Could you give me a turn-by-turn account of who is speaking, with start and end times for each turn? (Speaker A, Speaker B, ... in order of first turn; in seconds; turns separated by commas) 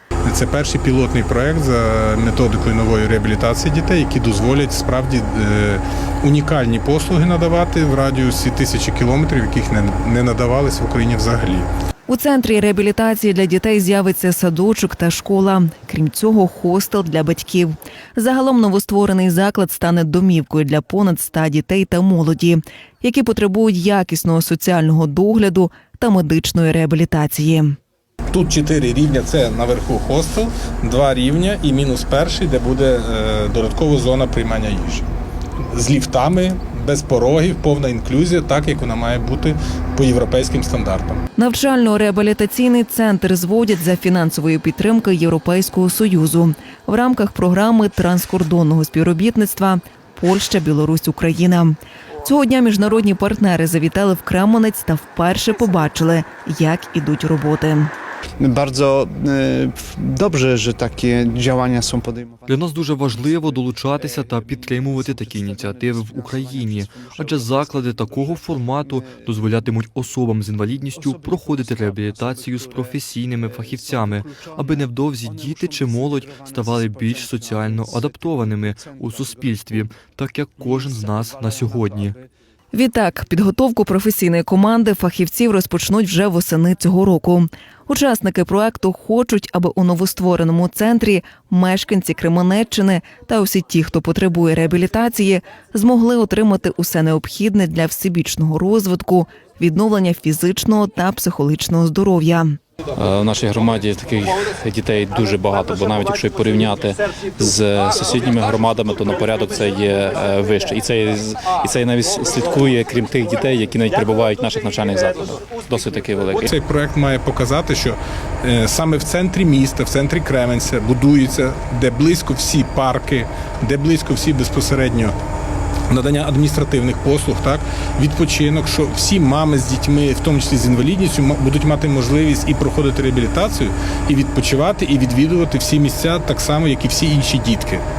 Speaker A: 0.2-11.7, Speaker B: 12.1-27.8, Speaker A: 28.3-35.0, Speaker A: 35.7-41.2, Speaker B: 41.4-57.9, Speaker C: 58.4-69.3, Speaker D: 62.5-82.2, Speaker C: 71.0-79.8, Speaker C: 80.6-82.2, Speaker B: 82.7-102.6, Speaker E: 102.9-116.5, Speaker A: 116.5-125.1, Speaker A: 125.9-137.8